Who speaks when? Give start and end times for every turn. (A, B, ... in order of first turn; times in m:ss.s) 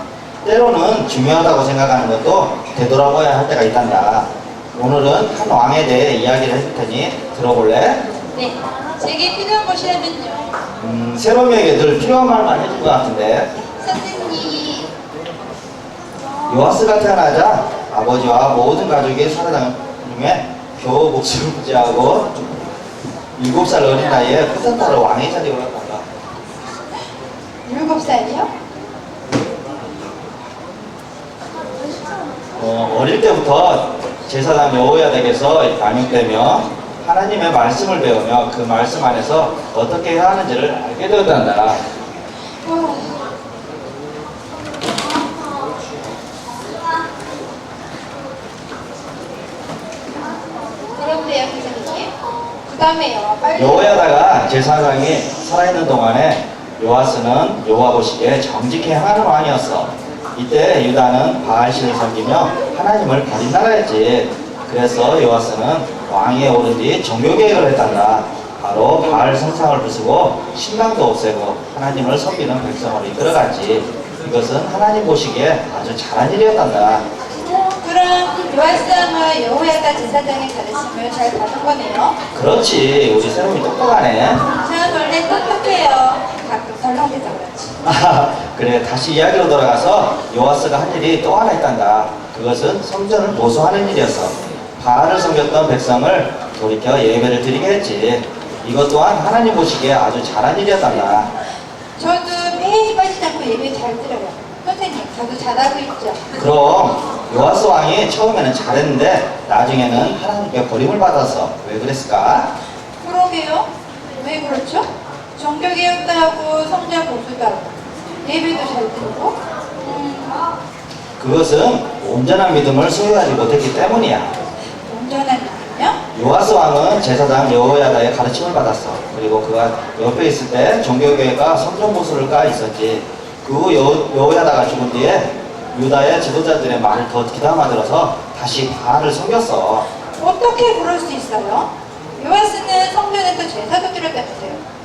0:00.4-0:08.0 A
0:08.3-0:10.6 B
0:10.8-0:13.5 A
0:13.8-0:14.9 B
0:16.5-0:22.5 A
0:23.4-0:26.0 A
0:27.6-0:28.5 B
0:32.6-0:41.8 A
0:42.6-0:43.1 B
0:51.0-0:52.1 B
0:52.7-0:54.2 B
0:53.5-1:17.0 A
1:17.5-1:22.2 B
1:22.3-1:24.4 A
1:24.4-1:27.7 B
1:27.8-1:41.3 A
1:42.0-1:46.2 B
1:46.3-1:52.5 A
1:53.0-1:53.7 B
1:54.2-2:00.4 B
2:01.2-2:04.3 A
2:04.9-2:06.0 B
2:06.1-2:19.9 A
2:20.2-2:24.6 B